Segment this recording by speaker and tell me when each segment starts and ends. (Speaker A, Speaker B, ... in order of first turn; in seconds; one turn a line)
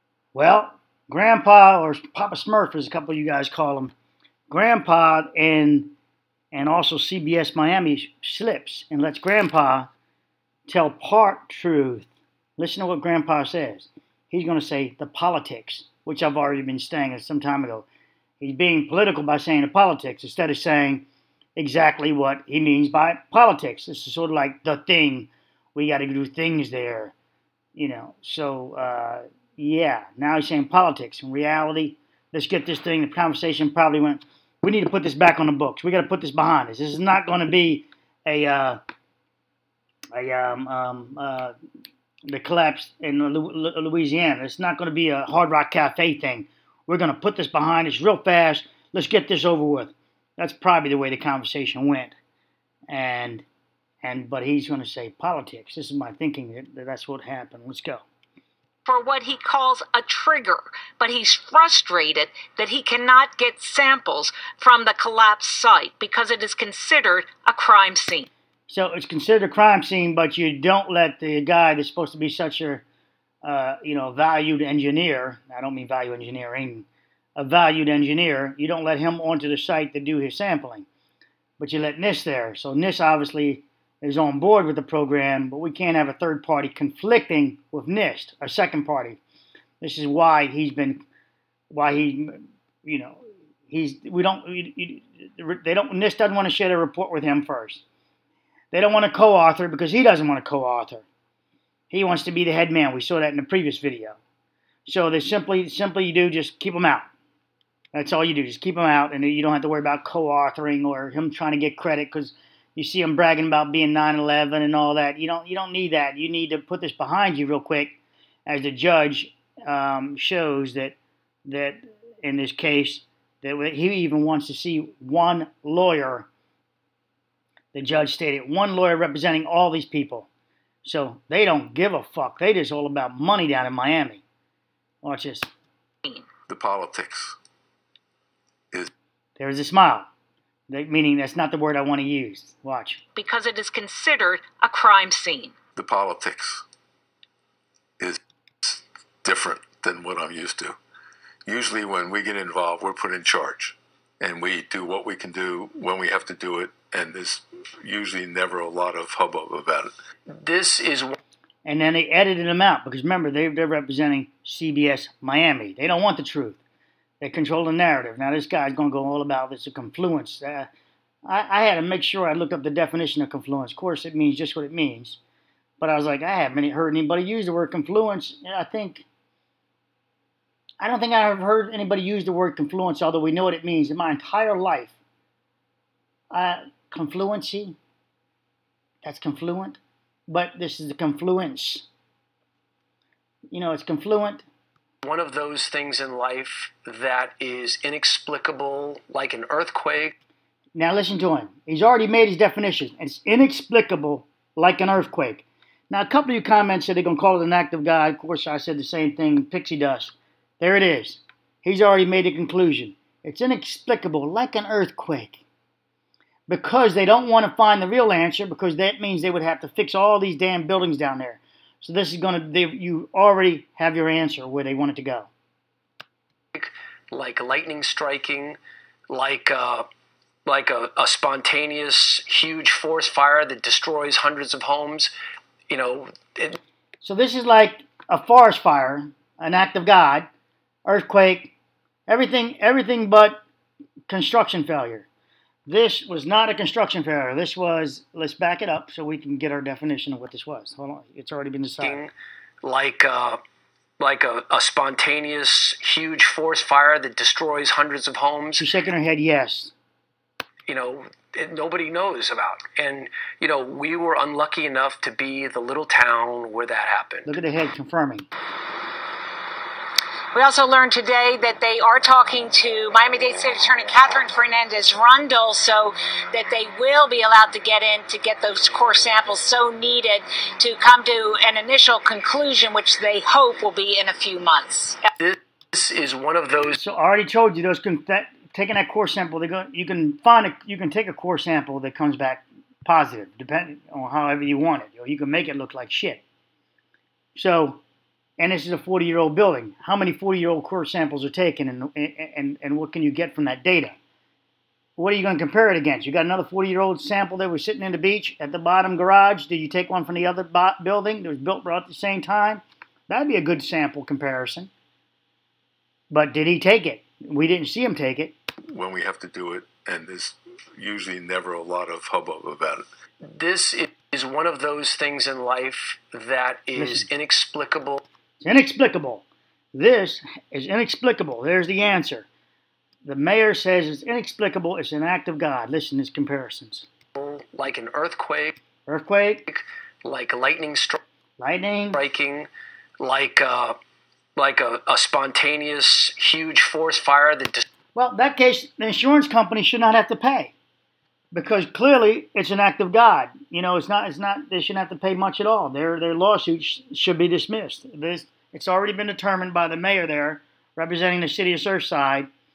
Speaker A: 0.3-3.9
Speaker A: 4.5-5.9
Speaker A: 6.5-9.9
Speaker A: 10.7-17.9
Speaker A: 18.4-21.1
Speaker A: 21.6-27.1
Speaker A: 27.8-38.8
Speaker A: 40.1-41.5
Speaker A: 42.3-52.1
Speaker A: 52.9-53.5
Speaker A: 54.0-58.0
Speaker B: 58.9-68.3
Speaker A: 68.7-72.8
Speaker A: 73.4-80.9
Speaker A: 81.6-89.2
Speaker A: 89.8-91.0
Speaker A: 91.7-97.8
Speaker A: 98.7-101.0
Speaker A: 101.9-104.2
Speaker A: 104.9-107.1
Speaker A: 107.9-126.3
Speaker A: 127.7-130.3
Speaker A: 130.8-134.2
Speaker A: 135.0-135.5
Speaker C: 136.5-137.4
Speaker A: 139.4-140.1
Speaker A: 140.7-143.0
Speaker B: 143.2-145.5
Speaker C: 145.8-146.6
Speaker C: 148.0-150.8
Speaker C: 151.5-159.9
Speaker D: 160.3-161.2
Speaker A: 161.7-166.6
Speaker A: 167.2-170.7
Speaker A: 171.2-175.2
Speaker A: 175.8-179.1
Speaker A: 180.8-184.9
Speaker A: 186.3-187.8
Speaker A: 189.0-191.9
Speaker A: 193.5-194.4
Speaker D: 195.0-200.2
Speaker A: 200.8-215.4
Speaker A: 216.5-225.3
Speaker D: 226.5-228.6
Speaker D: 229.1-229.8
Speaker D: 230.5-235.1
Speaker D: 235.7-236.6
Speaker A: 237.0-240.3
Speaker A: 240.9-241.5
Speaker A: 242.1-243.4
Speaker A: 244.1-245.1
Speaker A: 245.7-252.1
Speaker D: 251.8-252.1
Speaker D: 252.6-253.4
Speaker D: 254.0-258.7
Speaker A: 258.6-259.7
Speaker D: 260.7-267.3
Speaker A: 267.3-268.3
Speaker B: 270.3-285.1
Speaker D: 285.2-286.8
Speaker A: 286.8-296.2
Speaker A: 297.4-297.8
Speaker A: 298.4-303.9
Speaker A: 305.0-314.7
Speaker A: 316.1-318.3
Speaker C: 318.7-322.9
Speaker D: 323.2-328.0
Speaker A: 326.8-327.1
Speaker A: 328.4-332.3
Speaker A: 333.0-336.9
Speaker D: 337.1-338.6
Speaker A: 338.9-339.5
Speaker D: 339.5-341.0
Speaker A: 341.4-342.0
Speaker D: 341.9-342.5
Speaker D: 343.0-343.8
Speaker D: 344.4-347.6
Speaker A: 347.9-350.5
Speaker A: 351.3-362.3